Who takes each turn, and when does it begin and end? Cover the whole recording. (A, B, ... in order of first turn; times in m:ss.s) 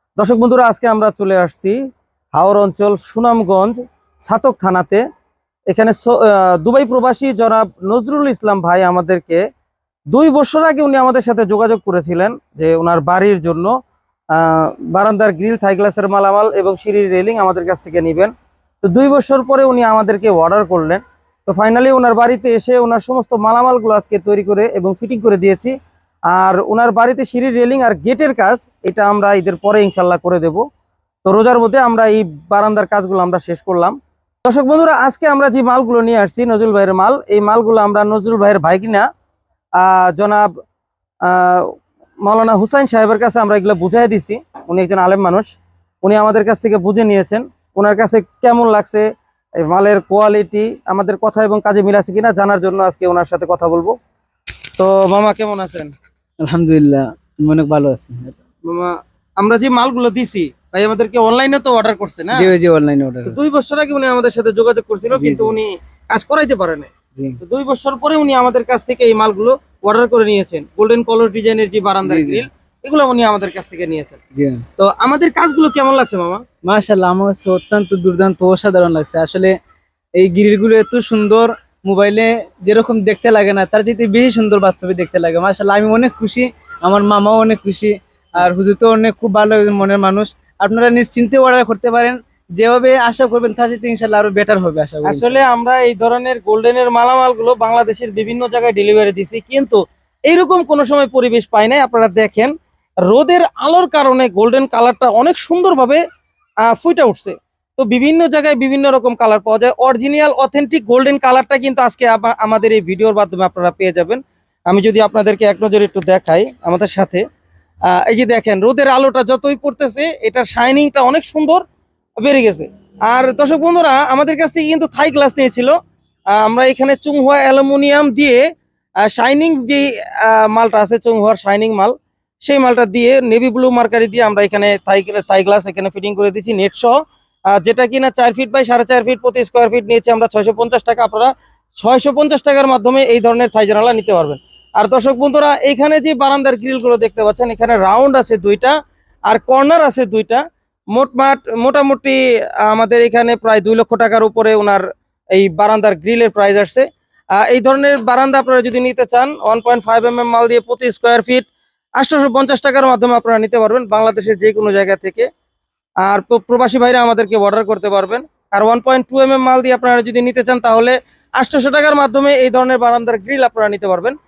0:00.2-0:01.8 A
0:02.4-0:05.0 A
0:05.7-0:09.4 A
0:10.1-0:13.7 A
0:14.3-0:18.3 A
0:18.8-0:25.7 A
0:26.3-0:30.6 A
0:31.2-0:39.1 A
0:39.8-0:40.5 A
0:41.3-0:41.7 A
0:42.2-0:45.5 A
0:46.0-0:49.1 A
0:49.6-0:54.0 A
0:54.8-0:55.9 A
0:56.4-0:58.4 B
0:58.7-1:02.5 A
1:02.3-1:03.4 B
1:03.3-1:06.9 A
1:05.1-1:05.6 B
1:07.4-1:14.2 A
1:12.0-1:12.4 B
1:14.4-1:14.6 B
1:14.8-1:16.4 A
1:16.6-1:19.6 B
1:20.2-1:35.4 B
1:35.0-1:42.5 A
1:43.1-1:46.0 A
1:46.7-1:57.2 A
1:57.9-2:01.6 A
2:02.2-2:05.8 A
2:06.3-2:08.4 A
2:09.0-2:11.9 A
2:12.4-2:17.0 A
2:17.5-2:28.8 A
2:29.3-2:30.4 A
2:30.9-2:34.8 A
2:35.4-2:36.9 A
2:37.4-2:45.3 A
2:46.0-2:54.2 A